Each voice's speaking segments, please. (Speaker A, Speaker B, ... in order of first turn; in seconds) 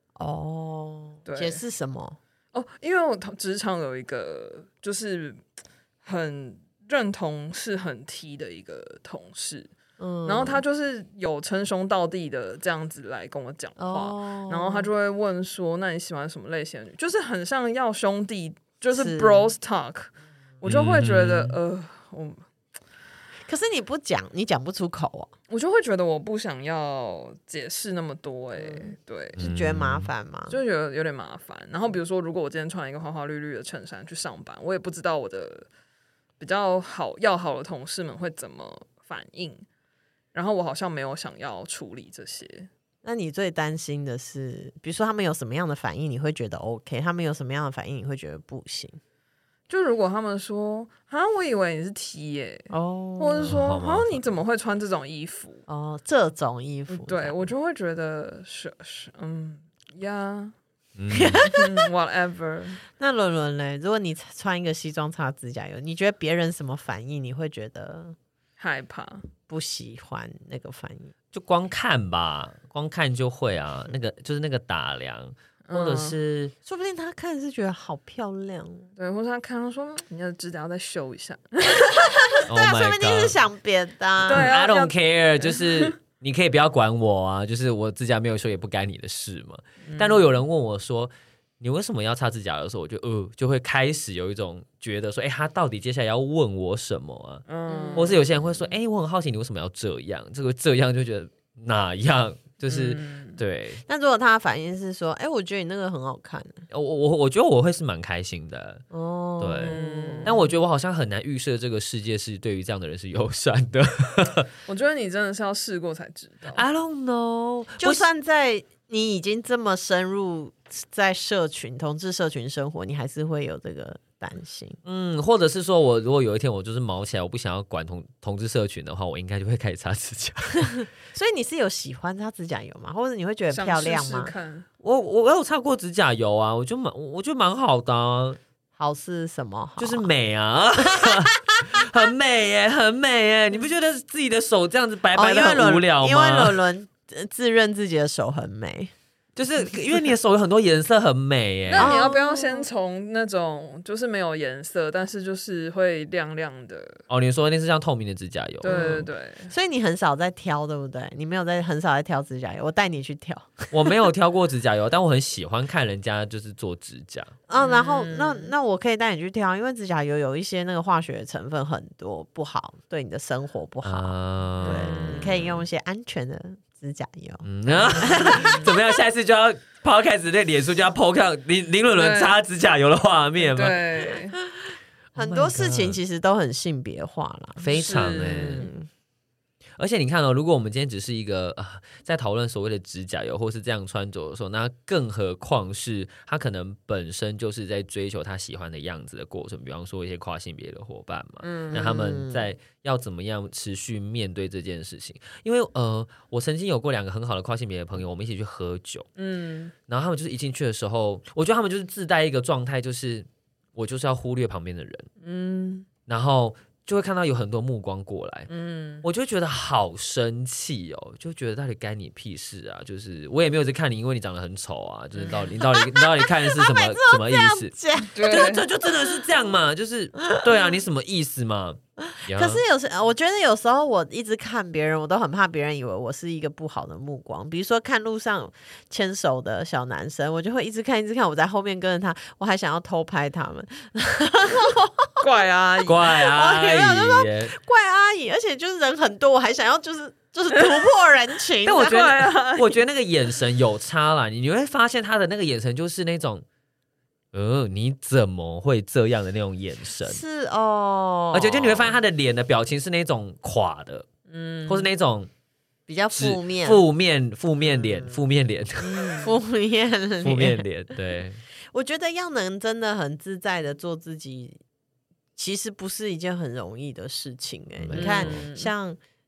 Speaker A: 0.2-2.2, 10.0-10.6, 13.8-14.9, 18.9-19.5, 23.5-25.3, 28.6-30.6, 43.0-49.0, 52.7-53.6, 55.7-57.5, 61.1-61.9, 63.0-68.2, 69.5-71.1, 76.7-78.8, 81.8-84.5, 97.7-98.3, 103.8-106.6, 108.9-110.4, 117.8-124.8, 130.6-134.3, 138.8-140.1, 140.8-142.1, 145.1-148.9, 151.8-152.7, 158.6-163.9, 167.5-178.8, 185.1-188.9, 201.7-202.5, 225.3-229.2, 230.3-230.6, 232.0-245.3, 246.1-252.1, 260.0-262.0, 265.9-266.8, 267.7-268.2, 268.8-270.6, 271.7-274.6, 275.4-279.0
Speaker B: 1.2-1.6, 2.5-5.4, 6.0-9.7, 10.2-22.4, 25.5-29.4, 30.5-35.7, 36.4-39.6, 40.3-42.7, 49.7-55.6, 56.9-60.5, 61.5-62.8, 68.6-69.3, 75.7-76.2, 79.0-82.0, 84.2-85.9, 89.8-90.3, 97.5-98.2, 102.7-103.4, 109.6-110.4, 114.7-116.6, 133.5-134.7, 151.7-157.0, 158.6-159.5, 167.5-168.5, 174.6-175.3, 178.3-178.7, 181.9-182.3, 183.4-184.4, 187.7-188.7, 201.4-201.7, 209.2-209.7, 215.2-215.9, 218.5-219.0, 228.1-228.7, 245.2-246.1, 251.7-252.8, 264.3-264.9, 277.9-278.7
Speaker C: 20.6-21.6, 29.4-30.1, 53.4-54.4, 61.0-61.5, 71.3-76.5, 82.5-83.4, 84.2-97.4, 98.0-103.8, 106.7-108.8, 109.4-114.5, 116.5-118.0, 124.8-130.8, 134.8-138.4, 139.8-146.6, 149.3-152.0, 157.1-159.1, 163.7-167.3, 173.8-175.6, 177.4-183.8, 185.1-186.0, 187.6-188.7, 189.8-209.1, 209.9-215.1, 216.1-218.5, 219.0-232.6, 245.8-247.5, 251.6-256.4, 257.3-260.2, 261.3-264.1, 264.7-265.3, 266.1-269.3, 270.2-271.4, 277.8-278.4